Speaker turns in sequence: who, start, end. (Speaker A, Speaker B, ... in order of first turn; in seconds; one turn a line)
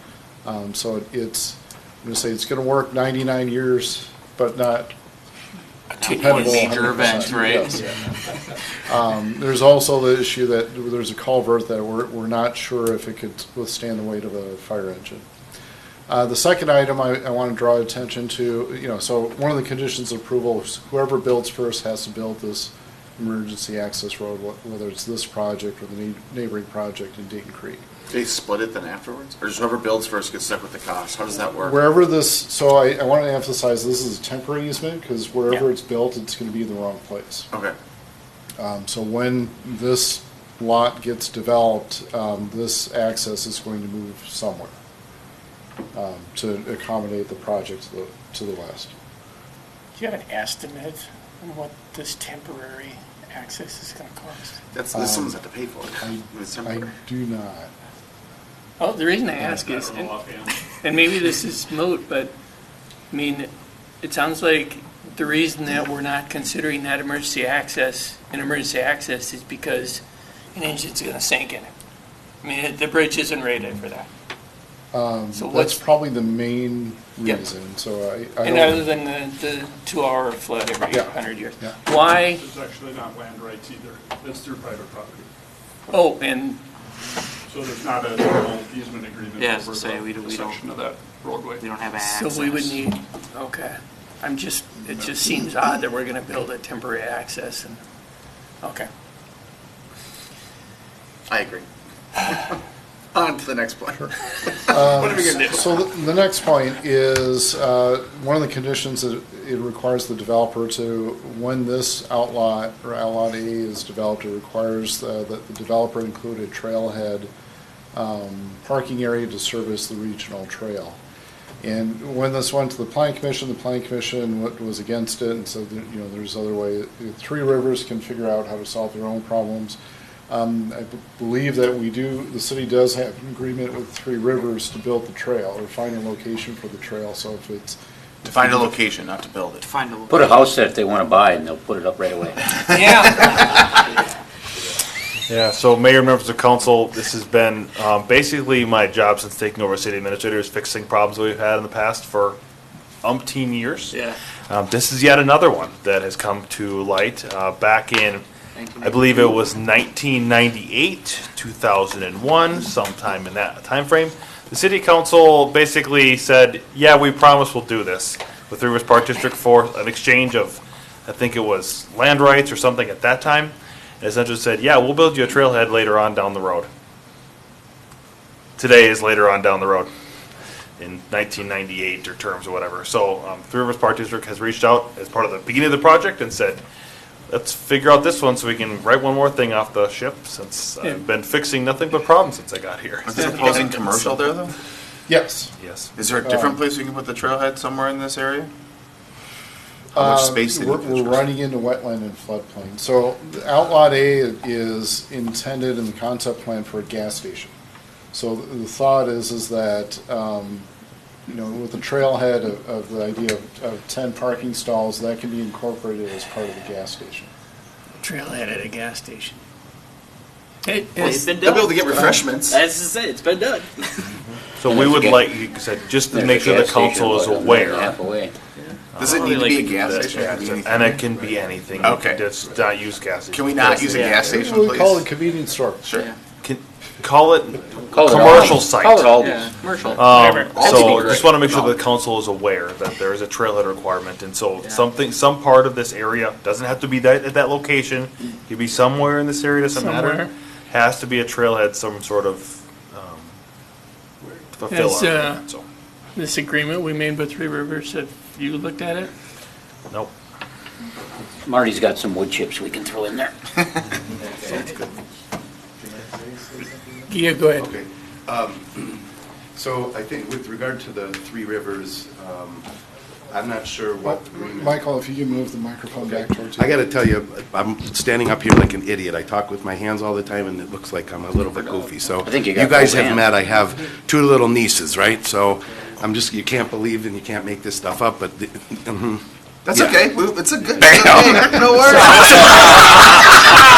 Speaker A: 0.5-4.9
Speaker A: 6.0-8.0
Speaker B: 6.1-7.6
Speaker C: 6.1-7.0
Speaker A: 8.8-15.2
Speaker A: 16.1-27.8
Speaker B: 28.1-31.8
Speaker A: 31.6-37.5
Speaker A: 38.6-44.7
Speaker A: 45.9-48.9
Speaker C: 50.0-54.6
Speaker B: 54.7-56.9
Speaker A: 54.9-55.4
Speaker A: 56.0-57.7
Speaker C: 58.8-60.2
Speaker A: 59.4-59.7
Speaker D: 59.7-60.6
Speaker C: 60.7-62.3
Speaker C: 63.1-63.5
Speaker C: 64.0-70.0
Speaker C: 70.5-71.7
Speaker C: 72.4-74.1
Speaker A: 74.9-78.9
Speaker C: 75.3-75.8
Speaker C: 78.4-82.4
Speaker A: 80.9-81.8
Speaker D: 82.1-85.3
Speaker C: 85.9-86.6
Speaker D: 87.5-91.7
Speaker E: 89.4-90.6
Speaker E: 91.6-92.8
Speaker C: 91.9-97.8
Speaker C: 98.6-98.9
Speaker B: 101.3-101.7
Speaker B: 102.2-102.6
Speaker B: 103.1-105.8
Speaker A: 104.7-117.3
Speaker A: 117.9-121.0
Speaker A: 121.6-129.8
Speaker A: 130.3-138.7
Speaker B: 138.2-139.7
Speaker E: 139.6-140.3
Speaker F: 140.1-142.4
Speaker C: 142.7-143.4
Speaker B: 142.8-143.3
Speaker G: 145.3-152.4
Speaker G: 153.0-154.0
Speaker G: 154.5-158.2
Speaker E: 158.6-159.4
Speaker G: 158.8-176.7
Speaker G: 178.6-179.9
Speaker G: 180.8-186.6
Speaker G: 187.3-193.7
Speaker B: 193.1-194.5
Speaker C: 193.2-193.7
Speaker A: 195.1-195.5
Speaker G: 195.6-195.9
Speaker B: 196.0-198.5
Speaker A: 196.2-196.6
Speaker B: 199.9-201.3
Speaker A: 199.9-207.5
Speaker A: 208.1-210.7
Speaker A: 211.3-217.3
Speaker C: 218.0-219.4
Speaker C: 220.6-222.2
Speaker B: 221.0-222.6
Speaker E: 221.0-224.1
Speaker G: 224.6-227.9
Speaker F: 224.7-225.2
Speaker F: 226.1-228.3
Speaker G: 228.9-234.1
Speaker B: 229.0-231.0
Speaker E: 229.3-230.2
Speaker B: 231.8-232.2
Speaker B: 233.3-235.1
Speaker A: 233.6-235.9
Speaker E: 233.9-234.3
Speaker B: 235.8-236.1
Speaker G: 236.4-239.1
Speaker F: 237.9-239.4
Speaker E: 239.2-240.9
Speaker G: 239.9-253.3
Speaker B: 240.0-241.7
Speaker F: 240.8-241.2
Speaker C: 249.7-250.3
Speaker G: 254.6-255.6
Speaker C: 254.7-255.4
Speaker C: 256.2-259.1
Speaker F: 261.4-263.3
Speaker H: 264.2-264.8
Speaker H: 265.9-267.0
Speaker C: 267.1-267.7
Speaker H: 267.6-272.7
Speaker H: 273.3-274.8
Speaker A: 274.0-276.9
Speaker H: 276.2-290.1
Speaker F: 282.2-283.3
Speaker B: 289.7-293.0
Speaker H: 290.8-291.6
Speaker F: 290.8-292.2